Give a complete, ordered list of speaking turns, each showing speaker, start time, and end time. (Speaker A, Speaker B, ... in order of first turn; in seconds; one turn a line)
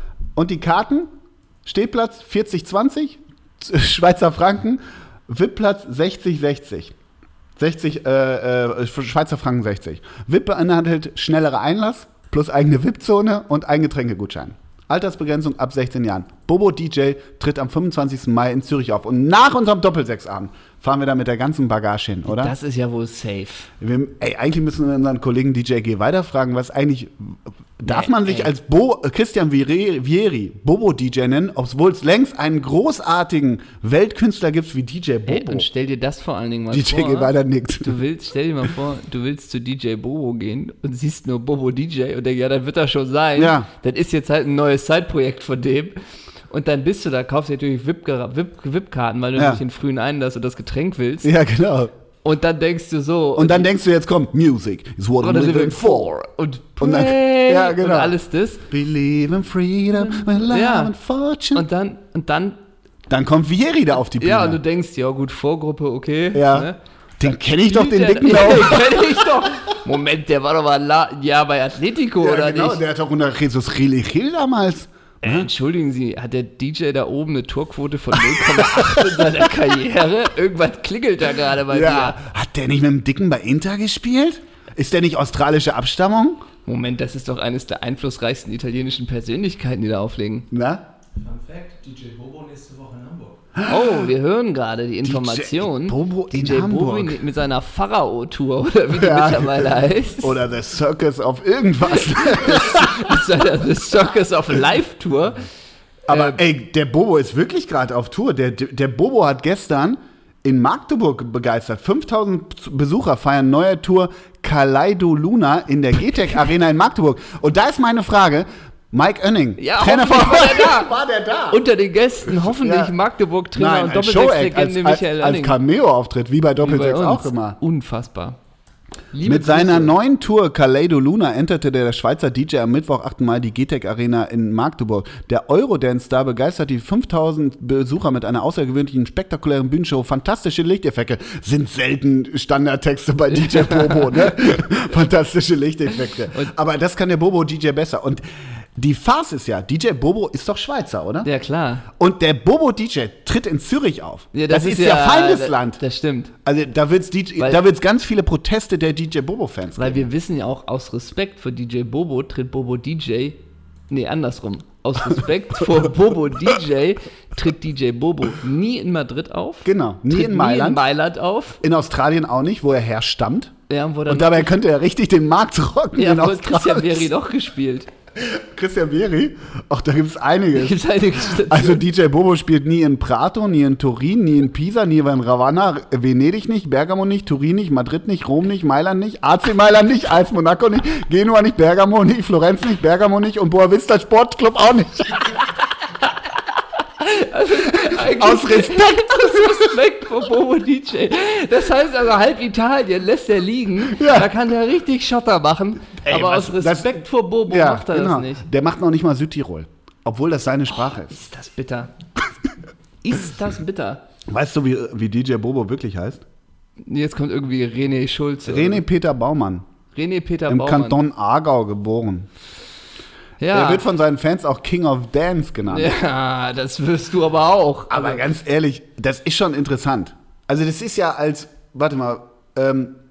Speaker A: 0.3-1.1
Speaker A: 1.6-6.9
Speaker A: 7.6-22.5
Speaker B: 22.3-23.7
Speaker A: 23.8-35.7
Speaker B: 27.8-28.5
Speaker B: 35.3-46.0
Speaker A: 36.7-38.0
Speaker A: 43.4-43.7
Speaker B: 46.5-51.3
Speaker A: 49.4-49.6
Speaker A: 51.2-51.9
Speaker B: 52.2-53.7
Speaker A: 53.4-56.1
Speaker B: 55.2-58.6
Speaker A: 56.8-58.1
Speaker A: 58.7-61.6
Speaker B: 59.9-60.9
Speaker B: 61.5-62.6
Speaker A: 63.1-64.6
Speaker B: 64.2-66.8
Speaker A: 66.3-69.6
Speaker B: 67.6-72.8
Speaker A: 72.2-75.5
Speaker B: 75.2-82.2
Speaker A: 78.1-79.5
Speaker A: 81.7-86.4
Speaker B: 86.7-90.5
Speaker A: 90.5-90.8
Speaker C: 91.2-93.5
Speaker A: 93.5-94.1
Speaker B: 93.6-100.4
Speaker A: 95.0-97.2
Speaker A: 98.9-103.2
Speaker B: 101.9-105.4
Speaker B: 106.1-106.4
Speaker A: 106.1-121.6
Speaker B: 119.6-120.9
Speaker B: 121.5-125.6
Speaker A: 122.3-122.9
Speaker A: 123.5-127.6
Speaker B: 126.6-128.4
Speaker B: 129.1-129.9
Speaker A: 129.2-151.3
Speaker B: 143.3-144.6
Speaker B: 145.9-146.5
Speaker B: 151.2-151.8
Speaker A: 151.9-155.8
Speaker B: 154.3-156.3
Speaker A: 156.4-160.1
Speaker B: 159.8-171.6
Speaker A: 169.6-170.8
Speaker A: 171.6-173.5
Speaker B: 173.7-174.5
Speaker A: 174.1-177.1
Speaker B: 175.9-177.9
Speaker A: 178.1-195.4
Speaker B: 180.5-181.8
Speaker B: 197.0-208.5
Speaker A: 197.7-199.8
Speaker A: 203.8-204.3
Speaker A: 206.0-211.1
Speaker B: 210.9-211.9
Speaker B: 213.0-214.0
Speaker A: 214.3-216.2
Speaker B: 216.8-218.8
Speaker A: 218.4-219.6
Speaker B: 219.9-221.0
Speaker A: 220.5-222.3
Speaker B: 223.4-223.8
Speaker A: 223.5-225.9
Speaker B: 225.7-228.2
Speaker A: 227.9-233.0